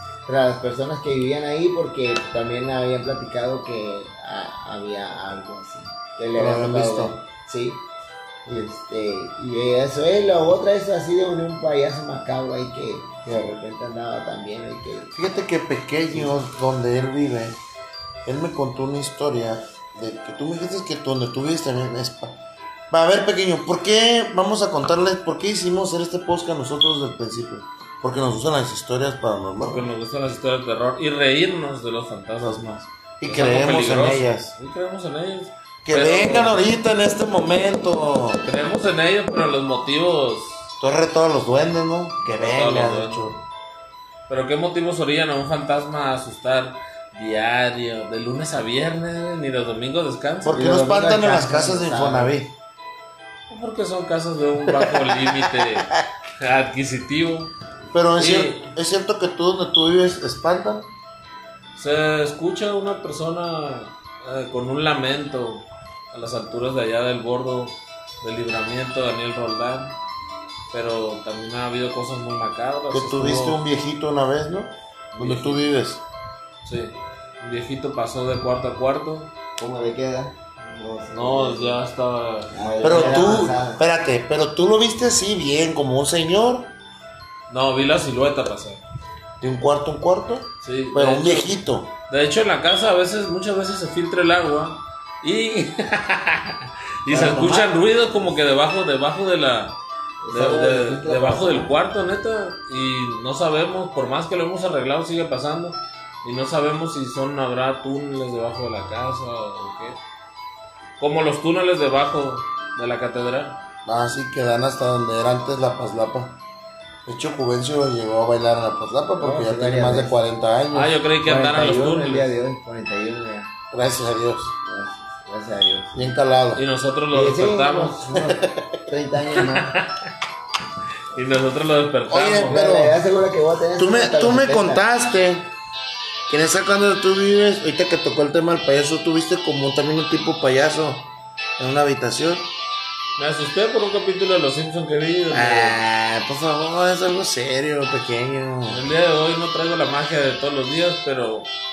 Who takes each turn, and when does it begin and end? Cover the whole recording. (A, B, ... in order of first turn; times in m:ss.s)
0:00.3-0:07.8 A
0:06.4-0:07.2 B
0:08.5-0:15.1 A
0:15.1-0:17.6 B
0:18.3-0:22.4 B
0:22.9-0:29.9 B
0:29.6-0:36.6 C
0:32.4-0:34.6 B
0:35.8-0:38.4 B
0:38.4-0:40.7 C
0:40.8-0:43.4 B
0:42.2-0:43.4 C
0:44.3-0:50.6 C
0:50.4-0:52.5 B
0:50.5-0:52.4 A
0:53.5-0:57.5 C
0:54.8-0:55.8 B
0:57.9-1:00.9 B
0:58.2-0:58.7 C
1:01.8-1:10.0 C
1:10.7-1:13.6 C
1:12.9-1:16.0 B
1:15.1-1:15.6 C
1:16.6-1:19.3 C
1:19.6-1:21.8 A
1:21.1-1:23.3 C
1:22.5-1:23.8 A
1:22.8-1:26.7 B
1:27.5-1:28.8 C
1:29.4-1:31.9 B
1:30.6-1:31.6 C
1:32.1-1:39.8 C
1:37.1-1:38.2 A
1:40.2-1:41.7 A
1:40.3-1:50.0 C
1:51.0-1:53.6 C
1:53.9-1:56.4 B
1:57.1-2:01.0 B
1:59.2-2:00.2 A
2:00.7-2:02.3 C
2:01.2-2:03.5 A
2:03.7-2:04.5 B
2:04.6-2:06.2 A
2:05.9-2:06.6 B
2:06.6-2:08.1 C
2:07.1-2:09.8 A
2:08.3-2:08.7 B
2:09.4-2:10.0 C
2:11.1-2:12.6 C
2:12.1-2:13.0 B
2:12.5-2:14.8 A
2:13.8-2:15.5 B
2:16.3-2:22.5 B
2:23.2-2:25.8 C
2:25.3-2:28.8 B
2:28.7-2:31.5 C